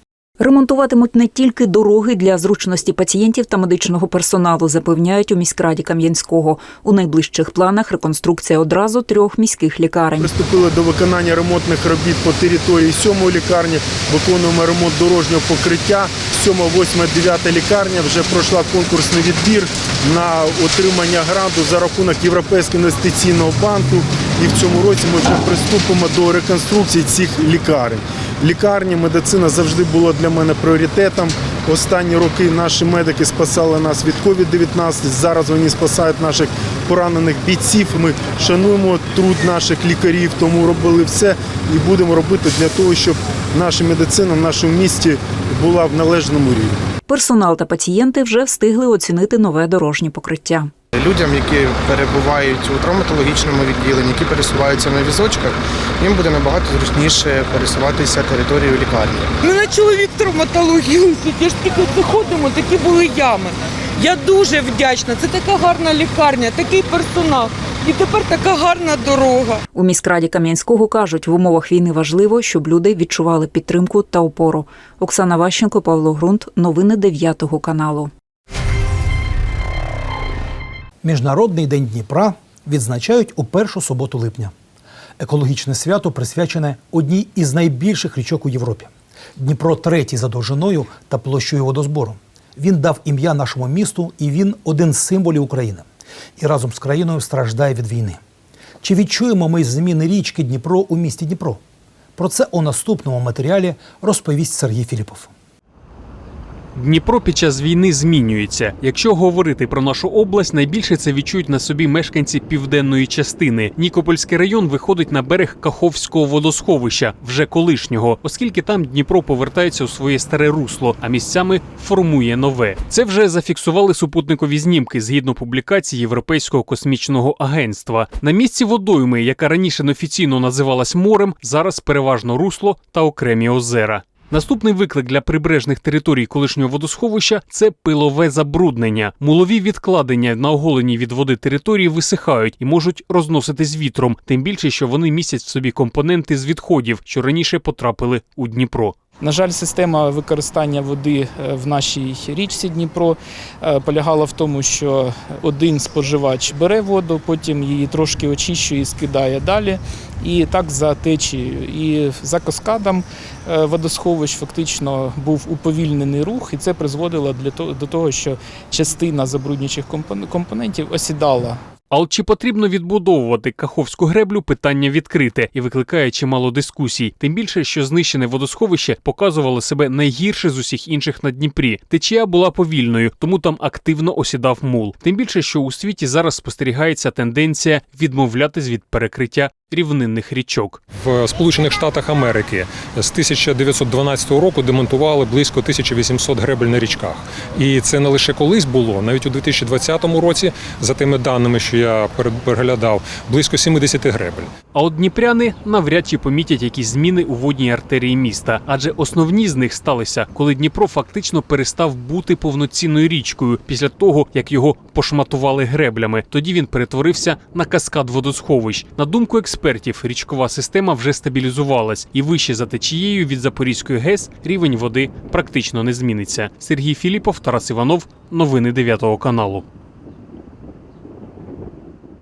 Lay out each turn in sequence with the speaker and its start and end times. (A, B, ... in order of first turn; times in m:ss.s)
0:00.4-0:10.3 A
0:10.2-0:46.8 B
0:47.1-0:50.7 A
0:51.0-0:59.2 C
0:59.5-1:03.5 D
1:04.0-1:09.6 D
1:09.7-1:18.1 A
1:21.0-1:24.5 E
1:25.2-1:35.9 E
1:36.4-1:38.2 E
1:38.8-1:41.6 E
1:42.2-1:45.3 E
1:46.8-2:29.0 F
2:29.2-2:51.6 G
2:51.9-3:10.8 F
3:11.0-3:24.5 H
3:24.7-3:49.6 F